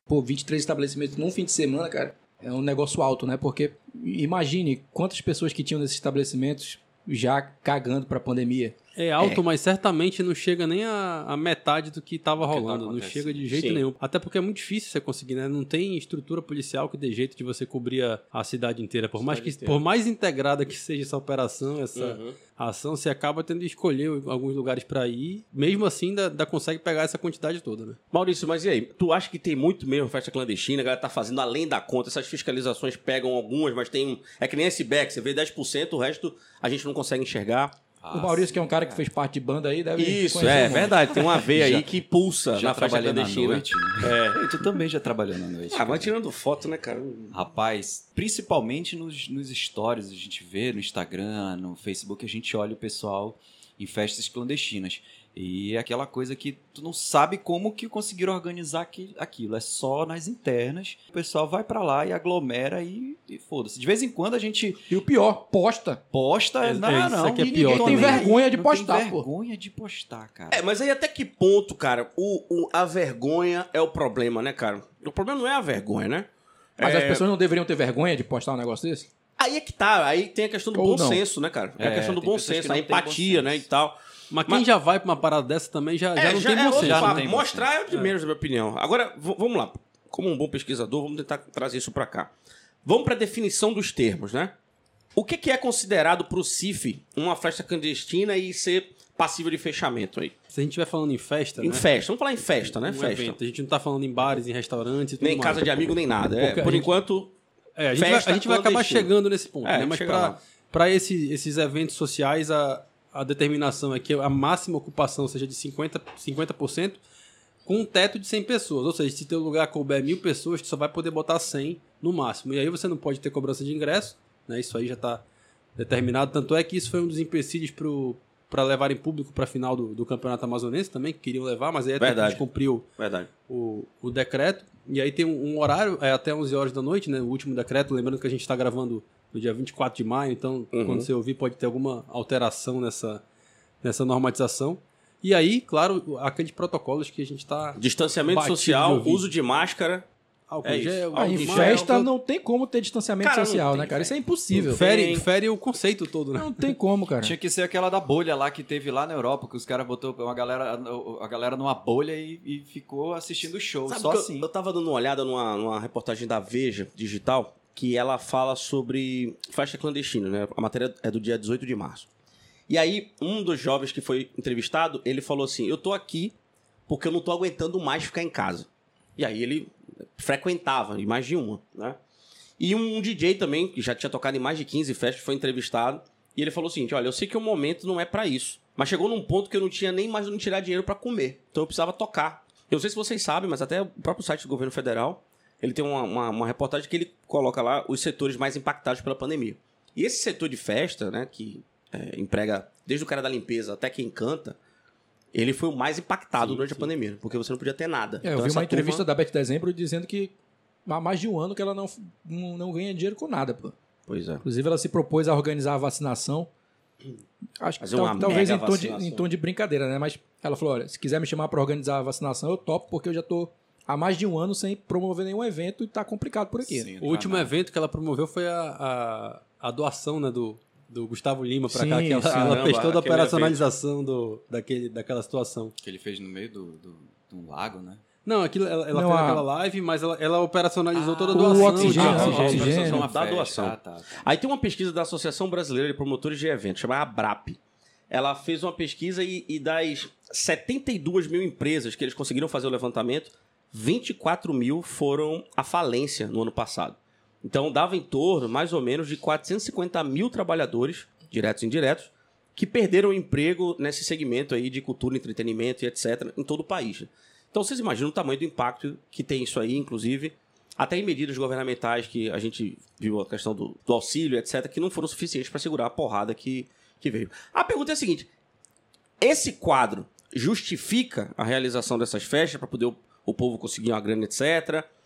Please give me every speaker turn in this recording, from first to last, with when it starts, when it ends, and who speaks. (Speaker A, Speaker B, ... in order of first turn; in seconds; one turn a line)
Speaker A: 0.1-8.8
Speaker B: 9.0-28.0
Speaker C: 12.4-13.6
Speaker D: 13.5-13.8
Speaker D: 19.2-19.8
Speaker D: 22.0-22.4
Speaker D: 28.1-37.8
Speaker C: 38.0-39.1
Speaker A: 38.1-41.0
Speaker D: 40.0-44.5
Speaker C: 40.8-41.9
Speaker C: 42.5-46.1
Speaker D: 45.7-47.4
Speaker C: 47.3-64.9
Speaker A: 64.9-66.0
Speaker C: 66.1-70.6
Speaker B: 66.6-68.3
Speaker A: 67.4-69.3
Speaker D: 70.5-77.3
Speaker A: 76.8-79.1
Speaker D: 79.4-84.6
Speaker A: 80.8-81.2
Speaker C: 81.8-83.7
Speaker B: 84.3-87.3
Speaker D: 86.2-92.3
Speaker C: 86.7-87.7
Speaker D: 92.8-94.5
Speaker D: 95.2-100.3
Speaker B: 100.5-101.9
Speaker D: 101.6-103.4
Speaker B: 102.7-105.8
Speaker D: 105.2-107.3
Speaker B: 106.4-107.0
Speaker B: 107.8-117.0
Speaker D: 108.0-109.1
Speaker D: 109.7-110.4
Speaker B: 117.7-125.2
Speaker B: 125.8-132.8
Speaker D: 132.0-132.4
Speaker D: 133.0-133.3
Speaker B: 133.5-143.2
Speaker D: 140.7-141.1
Speaker B: 143.8-149.3
Speaker D: 147.8-150.1
Speaker B: 150.5-152.1
Speaker D: 150.6-151.9
Speaker A: 151.2-154.8
Speaker D: 153.2-155.3
Speaker B: 154.7-156.8
Speaker A: 156.4-157.3
Speaker C: 157.2-164.5
Speaker D: 163.9-172.1
Speaker D: 172.7-176.3
Speaker D: 176.9-182.0
Speaker D: 182.6-204.6
Speaker D: 205.3-209.1
Speaker B: 206.4-206.9
Speaker A: 208.2-210.3
Speaker A: 210.9-213.7
Speaker D: 214.1-214.4
Speaker A: 214.4-216.5
Speaker A: 217.6-226.9
Speaker D: 217.8-219.3
Speaker C: 226.6-227.6
Speaker B: 227.0-235.8
Speaker A: 231.7-232.6
Speaker D: 232.3-233.6
Speaker C: 235.8-238.0
Speaker B: 238.2-242.8
Speaker A: 238.9-239.4
Speaker C: 240.9-244.3
Speaker A: 241.3-243.0
Speaker D: 241.9-247.6
Speaker D: 248.1-278.3
Speaker D: 279.2-284.9